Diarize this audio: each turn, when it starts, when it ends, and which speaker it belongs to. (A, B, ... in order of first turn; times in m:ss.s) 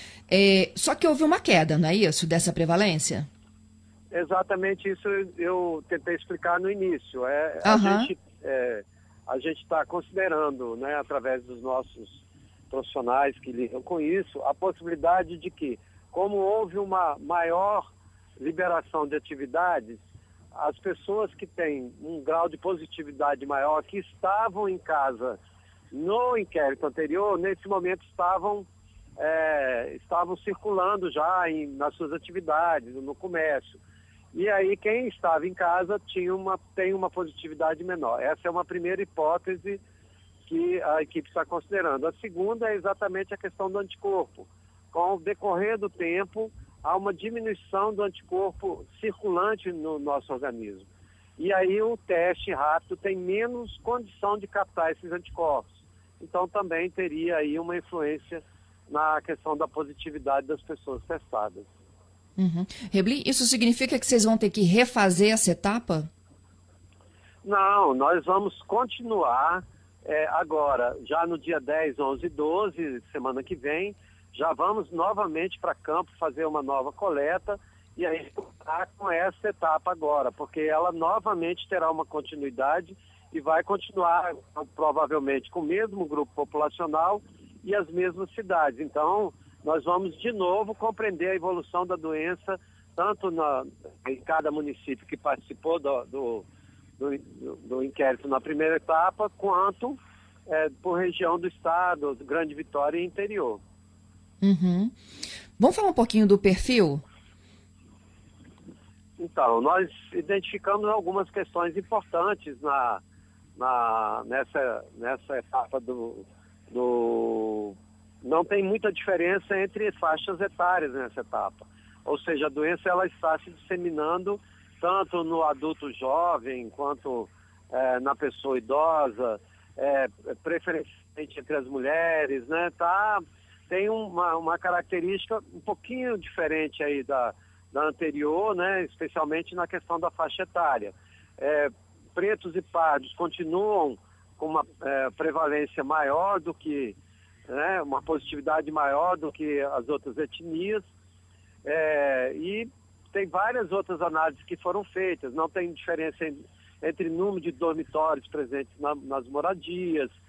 0:00.3-0:03.3 A
0:04.1-0:17.9 B
0:07.6-0:08.1 A
0:18.4-0:20.0 B
0:20.5-0:25.4 B
0:25.9-0:33.8 B
0:34.3-0:39.8 B
0:40.5-1:01.7 B
1:02.4-1:06.1 A
1:07.4-1:36.4 B
1:37.0-1:43.6 B
1:44.4-1:44.9 A
1:45.6-1:47.0 A
1:49.2-1:53.0 B
1:53.6-2:27.0 B
2:27.5-2:30.8 B
2:31.6-2:40.1 B